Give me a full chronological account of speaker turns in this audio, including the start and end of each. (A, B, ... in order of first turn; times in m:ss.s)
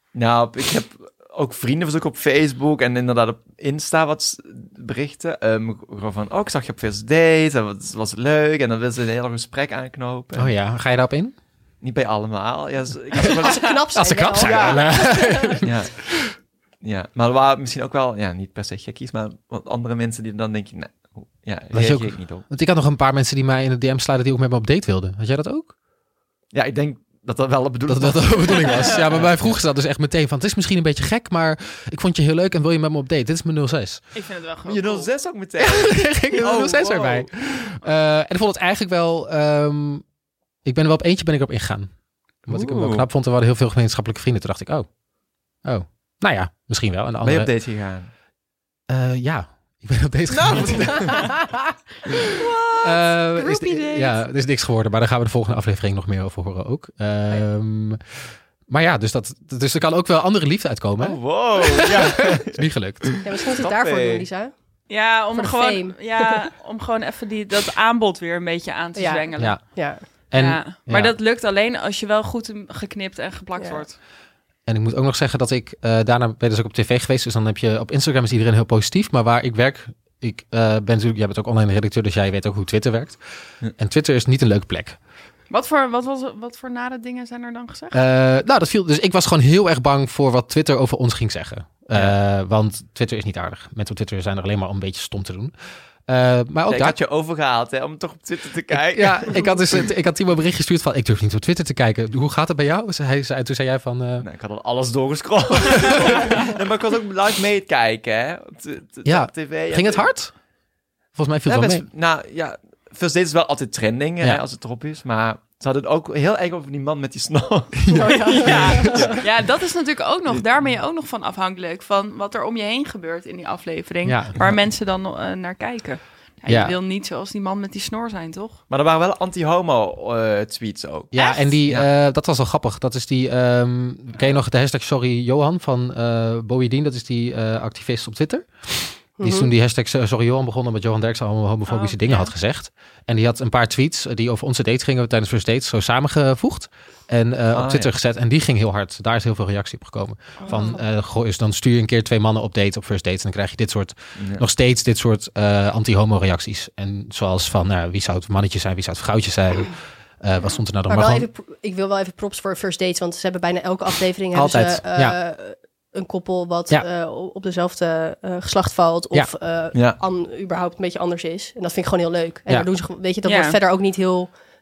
0:00.1-0:10.5 A
0:10.4-0:11.3 B
0:11.8-0:13.8 A
0:13.2-0:15.6 C
0:13.9-0:15.8 B
0:14.3-0:15.9 A
0:16.8-0:22.5 A
0:21.7-0:25.7 B
0:26.5-0:29.6 A
0:27.9-0:34.0 B
0:34.1-0:35.1 D
0:34.6-0:37.3 A
0:35.6-0:40.0 B
0:40.6-0:41.9 B
0:42.4-0:44.9 B
0:42.5-0:43.0 A
0:45.6-0:47.5 B
0:47.2-0:48.1 A
0:48.9-0:51.4 B
0:50.3-0:51.4 A
0:52.8-0:58.0 B
0:53.4-0:54.1 C
0:58.7-1:01.2 B
1:01.0-1:04.2 A
1:01.8-1:03.2 B
1:03.2-1:04.5 C
1:04.9-1:09.6 D
1:05.3-1:06.5 C
1:09.0-1:10.0 C
1:09.4-1:11.1 B
1:10.3-1:13.9 D
1:13.6-1:13.8 C
1:14.7-1:23.2 B
1:23.7-1:25.0 B
1:25.5-1:28.0 D
1:27.9-1:35.5 B
1:36.1-1:37.0 B
1:36.7-1:39.8 A
1:38.7-1:44.2 B
1:44.2-1:50.1 A
1:49.0-1:50.3 B
1:51.1-1:51.8 B
1:51.5-1:59.2 A
1:57.9-1:59.1 B
1:57.9-1:59.2 C
1:58.2-2:08.6 D
2:04.0-2:04.3 B
2:06.5-2:06.8 B
2:08.7-2:11.1 A
2:11.1-2:41.3 B
2:11.1-2:11.5 D
2:19.2-2:19.5 C
2:21.7-2:22.3 D
2:27.5-2:27.9 A
2:30.4-2:30.8 D
2:34.2-2:34.4 A
2:40.9-2:54.3 C
2:44.3-2:45.2 B
2:53.2-2:53.6 D